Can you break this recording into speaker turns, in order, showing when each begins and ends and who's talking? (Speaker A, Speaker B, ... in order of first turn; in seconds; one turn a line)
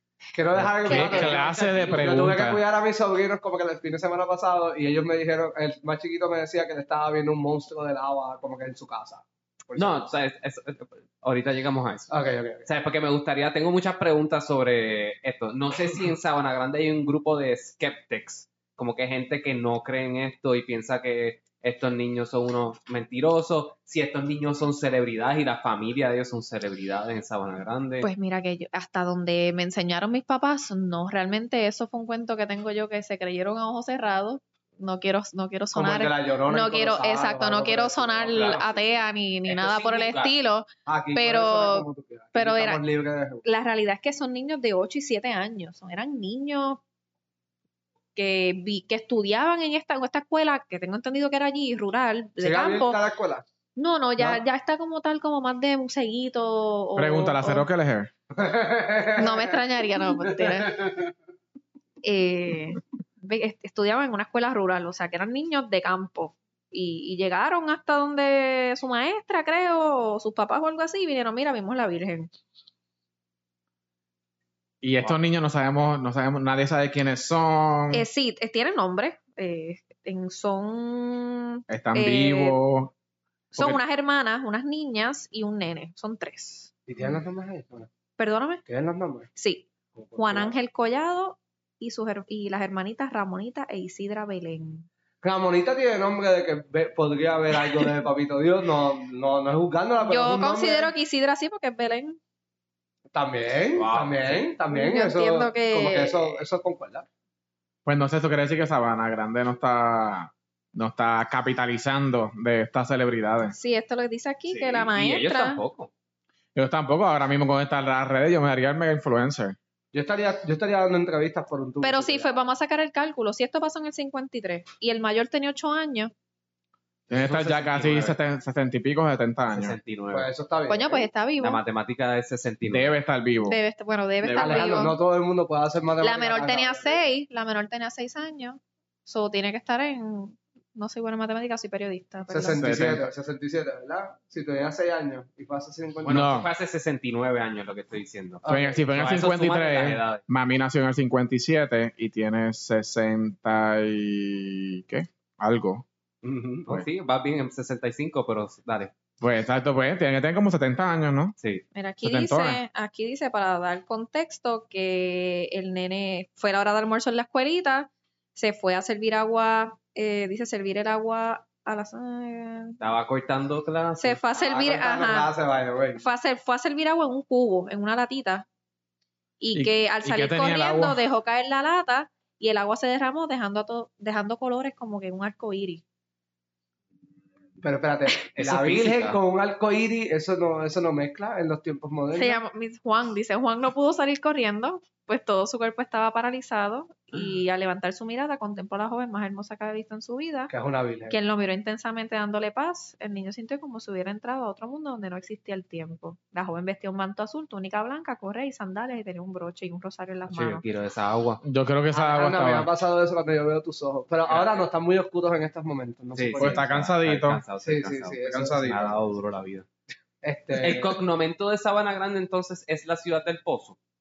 Speaker A: 0.3-10.1
Speaker B: 0.6-1.9
Speaker C: 0.8-2.6
Speaker D: 0.9-1.4
Speaker B: 9.8-12.1
Speaker A: 12.1-12.7
Speaker B: 12.7-28.1
Speaker D: 28.0-42.8
Speaker A: 35.7-38.8
Speaker B: 38.3-38.9
Speaker B: 39.5-40.4
Speaker A: 40.9-43.5
Speaker D: 43.5-46.8
Speaker D: 48.2-53.0
Speaker A: 52.4-53.5
Speaker D: 53.8-57.7
Speaker C: 57.0-58.1
Speaker A: 58.3-59.6
Speaker D: 59.2-60.8
Speaker A: 60.2-61.1
Speaker D: 62.0-72.3
Speaker C: 74.8-78.0
Speaker D: 77.9-82.6
Speaker C: 81.7-82.9
Speaker D: 83.5-86.7
Speaker C: 83.5-83.8
Speaker A: 86.9-87.9
Speaker D: 88.2-88.6
Speaker A: 88.7-89.3
Speaker D: 89.4-89.7
Speaker A: 90.0-90.5
Speaker D: 90.2-94.9
Speaker A: 95.2-100.9
Speaker D: 100.0-102.2
Speaker A: 103.1-107.1
Speaker B: 103.8-104.5
Speaker D: 104.7-106.4
Speaker C: 107.9-113.6
Speaker D: 113.5-115.6
Speaker B: 114.5-115.9
Speaker C: 116.5-119.6
Speaker A: 119.9-122.3
Speaker D: 121.8-126.1
Speaker B: 127.1-128.2
Speaker C: 127.1-129.8
Speaker B: 129.5-130.3
Speaker A: 130.1-131.1
Speaker D: 130.7-131.6
Speaker B: 131.4-132.9
Speaker C: 132.7-133.6
Speaker D: 133.5-135.0
Speaker C: 134.2-134.7
Speaker A: 134.4-137.0
Speaker D: 136.0-142.7
Speaker A: 142.3-146.3
Speaker C: 142.5-143.1
Speaker B: 146.0-150.2
Speaker C: 146.1-146.5
Speaker A: 148.4-148.9
Speaker C: 148.5-155.8
Speaker B: 156.2-158.9
Speaker C: 159.2-161.4
Speaker D: 161.7-172.8
Speaker C: 162.0-162.6
Speaker B: 172.8-174.2
Speaker D: 174.0-175.3
Speaker A: 174.4-176.0
Speaker D: 176.0-178.5
Speaker D: 179.4-185.8
Speaker C: 179.5-181.0
Speaker A: 187.6-192.4
Speaker B: 188.3-189.2
Speaker D: 192.2-200.5
Speaker A: 200.5-201.2
Speaker D: 201.1-210.6
Speaker B: 210.3-211.4
Speaker C: 211.4-212.7
Speaker A: 211.9-216.7
Speaker B: 214.3-214.6
Speaker B: 216.2-219.7
Speaker C: 216.4-217.4
Speaker A: 217.6-218.6
Speaker C: 218.3-218.9
Speaker A: 220.2-221.0
Speaker B: 220.6-223.8